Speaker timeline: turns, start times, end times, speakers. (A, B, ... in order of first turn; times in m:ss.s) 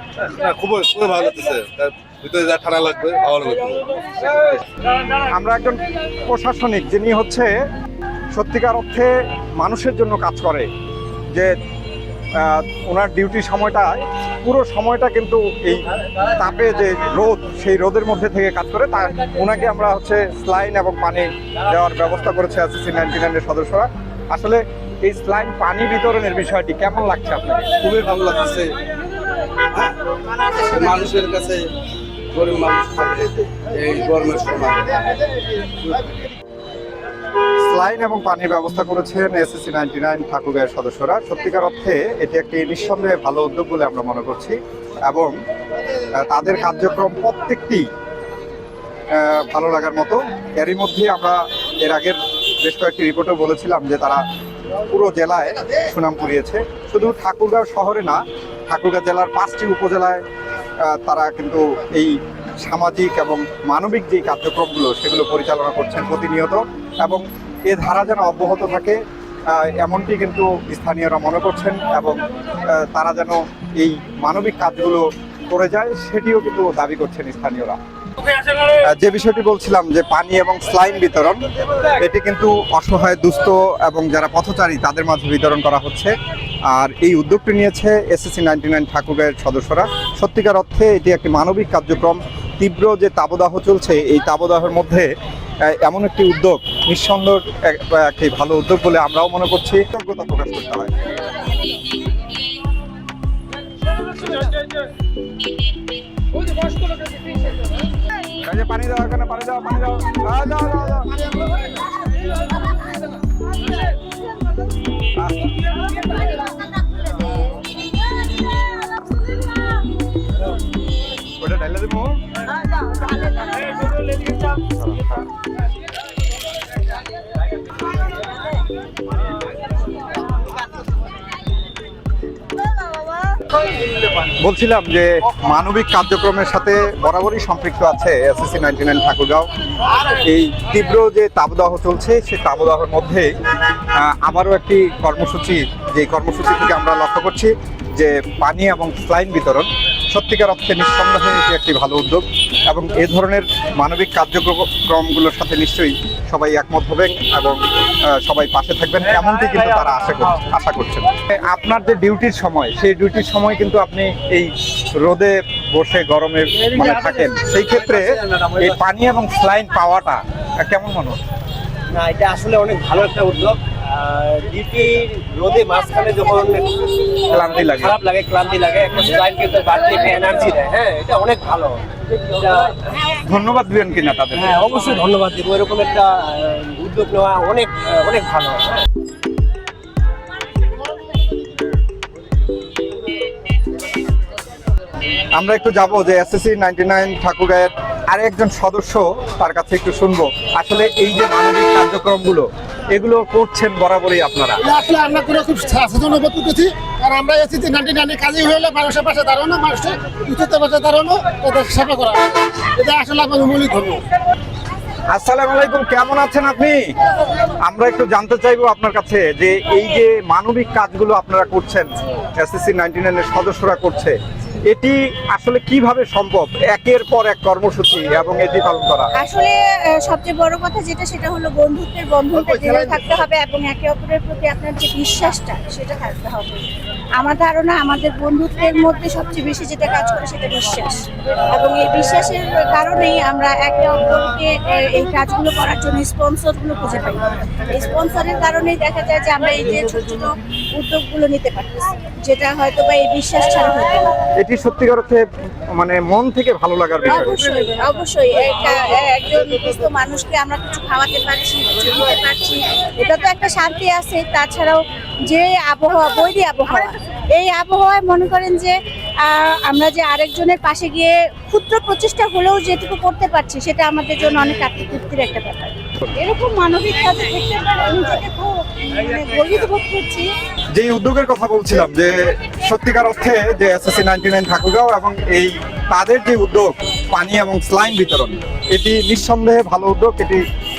0:00.3-0:04.6 A
0:05.3-0:07.5 B
0:08.3-0:10.7 B
0:12.4-0:27.7 B
0:27.8-0:28.7 A
0:30.5-0:31.7 A
0:32.3-0:35.2 A
0:37.6-0:45.3 B
0:46.1-0:47.9 B
0:49.1-0:54.2 B
0:54.9-1:00.2 B
1:00.8-1:09.0 B
1:09.5-1:17.8 B
1:18.8-1:26.1 B
1:26.7-1:35.1 B
1:35.6-1:40.9 B
1:48.4-1:51.2 B
1:55.2-1:55.6 B
2:01.4-2:02.2 B
2:04.7-2:05.2 B
2:14.4-2:19.5 B
2:20.2-2:23.3 B
2:24.0-2:51.2 B
2:51.9-2:56.7 C
2:57.3-2:58.0 B
2:57.4-3:02.7 C
3:03.2-3:04.5 B
3:04.4-3:08.8 C
3:15.3-3:24.6 B
3:24.6-3:34.0 D
3:35.1-3:36.8 B
3:37.6-3:44.2 B
3:44.7-3:49.1 B
3:49.2-3:56.6 E
3:57.2-4:14.0 E
4:14.4-4:15.2 B
4:15.8-4:17.4 B
4:17.1-4:40.3 E
4:40.7-4:50.4 B